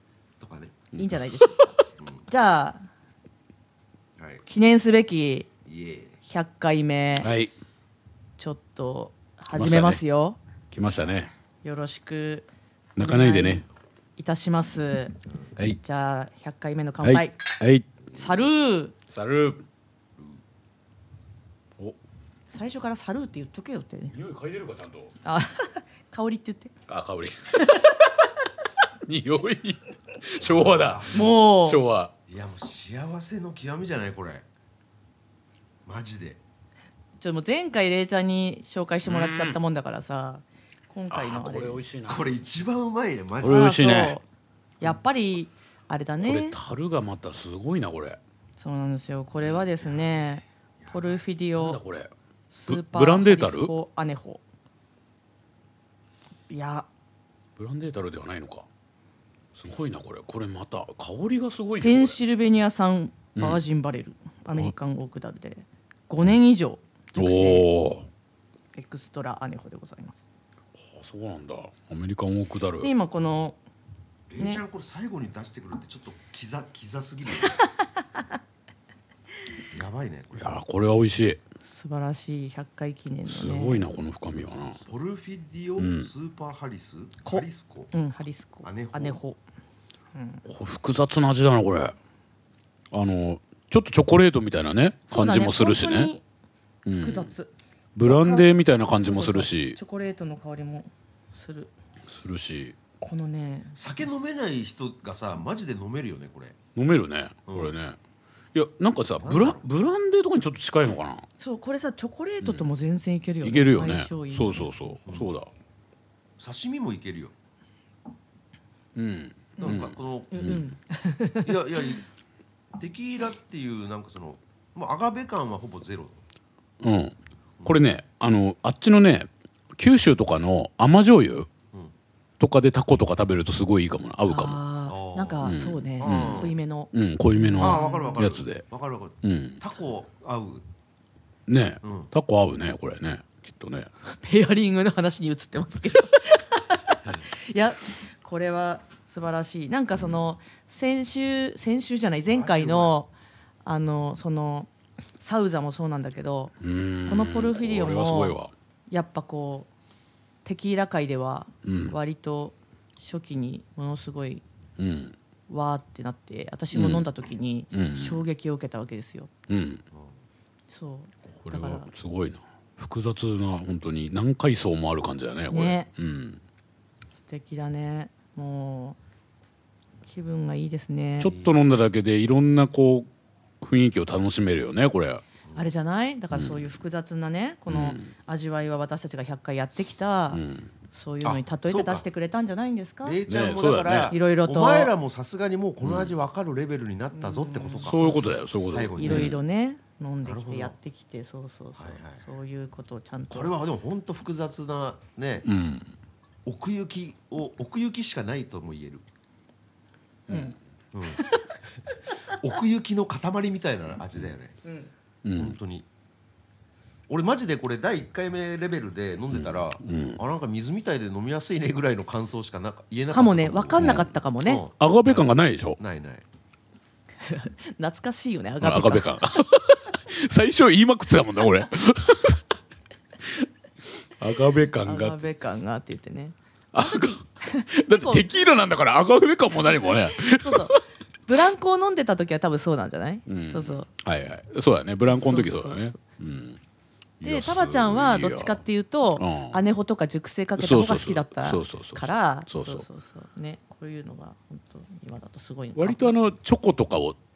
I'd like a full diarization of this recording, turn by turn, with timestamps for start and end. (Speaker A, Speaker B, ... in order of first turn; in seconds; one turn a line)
Speaker A: 0.4-0.8
Speaker B: 0.9-1.7
Speaker C: 0.9-1.7
Speaker A: 2.0-2.3
Speaker B: 2.3-2.9
Speaker A: 4.2-4.4
Speaker B: 4.5-5.5
Speaker A: 5.6-6.2
Speaker B: 6.2-7.3
Speaker C: 7.2-7.5
Speaker A: 7.2-7.6
Speaker B: 8.4-10.4
Speaker C: 9.5-10.0
Speaker C: 10.7-11.3
Speaker B: 11.6-13.6
Speaker C: 12.9-13.7
Speaker B: 14.2-17.4
Speaker C: 17.0-17.9
Speaker B: 18.1-18.9
Speaker C: 19.1-19.6
Speaker B: 22.5-24.1
Speaker C: 24.1-25.1
Speaker B: 25.2-26.7
Speaker C: 26.9-28.0
Speaker C: 29.0-32.1
Speaker A: 30.4-31.4
Speaker B: 31.1-31.8
Speaker A: 32.3-34.4
Speaker A: 35.9-36.4
Speaker B: 37.2-41.8
Speaker C: 39.0-39.6
Speaker C: 41.1-42.3
Speaker A: 42.0-43.8
Speaker C: 43.4-44.2
Speaker B: 43.4-44.2
Speaker B: 44.8-46.6
Speaker C: 46.2-48.2
Speaker B: 48.6-51.8
Speaker A: 50.8-51.2
Speaker C: 51.6-52.1
Speaker B: 52.5-54.4
Speaker C: 52.7-53.7
Speaker B: 56.5-56.9
Speaker C: 57.6-58.6
Speaker C: 59.5-62.2
Speaker B: 61.8-67.7
Speaker C: 63.4-63.6
Speaker C: 67.2-68.1
Speaker B: 68.7-70.2
Speaker C: 70.8-72.9
Speaker B: 72.8-73.6
Speaker A: 74.3-77.6
Speaker A: 79.7-80.5
Speaker C: 80.3-81.4
Speaker B: 81.6-83.9
Speaker C: 83.3-84.8
Speaker A: 84.8-87.9
Speaker C: 85.8-86.1
Speaker B: 87.2-89.4
Speaker A: 88.6-89.2
Speaker B: 90.1-90.4
Speaker C: 90.5-91.9
Speaker C: 92.9-96.1
Speaker B: 95.1-96.2
Speaker C: 96.8-97.3
Speaker B: 96.9-101.7
Speaker C: 97.9-99.8
Speaker C: 102.1-102.8
Speaker B: 103.0-103.8
Speaker A: 103.7-106.5
Speaker C: 106.8-108.0
Speaker A: 107.5-107.7
Speaker C: 108.5-111.2
Speaker A: 109.2-109.7
Speaker B: 111.4-114.7
Speaker C: 112.4-112.7
Speaker C: 113.4-115.5
Speaker A: 115.0-115.4
Speaker A: 116.4-117.3
Speaker C: 119.0-120.7
Speaker A: 119.6-120.6
Speaker B: 120.3-122.0
Speaker A: 121.4-122.0
Speaker A: 122.7-126.2
Speaker C: 126.8-131.5
Speaker A: 127.6-127.8
Speaker C: 132.4-134.6
Speaker B: 134.2-138.2
Speaker A: 134.9-136.5
Speaker C: 135.4-138.7
Speaker A: 137.6-140.7
Speaker C: 139.2-139.6
Speaker C: 141.5-143.9
Speaker A: 141.8-142.1
Speaker B: 144.0-153.1
Speaker A: 152.3-152.9
Speaker B: 153.6-156.5
Speaker C: 156.6-158.5
Speaker B: 157.1-158.4
Speaker B: 158.9-159.7
Speaker B: 160.4-164.4
Speaker C: 161.6-161.9
Speaker C: 164.8-165.1
Speaker B: 165.5-169.3
Speaker C: 166.7-167.0
Speaker C: 167.7-168.2
Speaker C: 169.5-169.8
Speaker B: 170.7-171.9
Speaker C: 171.4-176.4
Speaker B: 175.5-175.9
Speaker B: 177.2-179.0
Speaker B: 180.0-181.3
Speaker C: 181.2-183.1
Speaker C: 183.6-185.2
Speaker B: 185.5-193.2
Speaker C: 186.3-186.8
Speaker C: 187.7-188.1
Speaker C: 190.3-190.7
Speaker A: 191.2-192.0
Speaker A: 193.0-198.1
Speaker C: 193.3-194.1
Speaker B: 194.1-194.9
Speaker C: 195.8-196.1
Speaker B: 197.1-198.2
Speaker C: 197.8-199.3
Speaker A: 198.6-199.4
Speaker B: 199.0-203.5
Speaker A: 200.2-200.8
Speaker A: 201.8-202.2
Speaker A: 203.3-205.5
Speaker C: 205.4-205.9
Speaker A: 206.4-209.0
Speaker B: 210.3-210.6
Speaker A: 210.9-211.2
Speaker B: 211.1-211.5
Speaker A: 212.3-214.6
Speaker C: 215.2-215.6
Speaker A: 215.3-215.9
Speaker A: 217.1-226.2
Speaker C: 219.3-220.2
Speaker B: 223.1-224.6
Speaker C: 223.8-224.1
Speaker C: 224.8-225.8
Speaker B: 227.2-229.2
Speaker C: 228.6-232.4
Speaker C: 234.2-235.2
Speaker B: 234.8-238.4
Speaker C: 236.7-240.8
Speaker B: 240.1-243.9
Speaker C: 243.3-246.6
Speaker B: 245.1-246.0
Speaker C: 247.2-248.6
Speaker B: 247.2-256.1
Speaker C: 249.2-249.6
Speaker C: 250.6-252.8
Speaker C: 255.7-257.2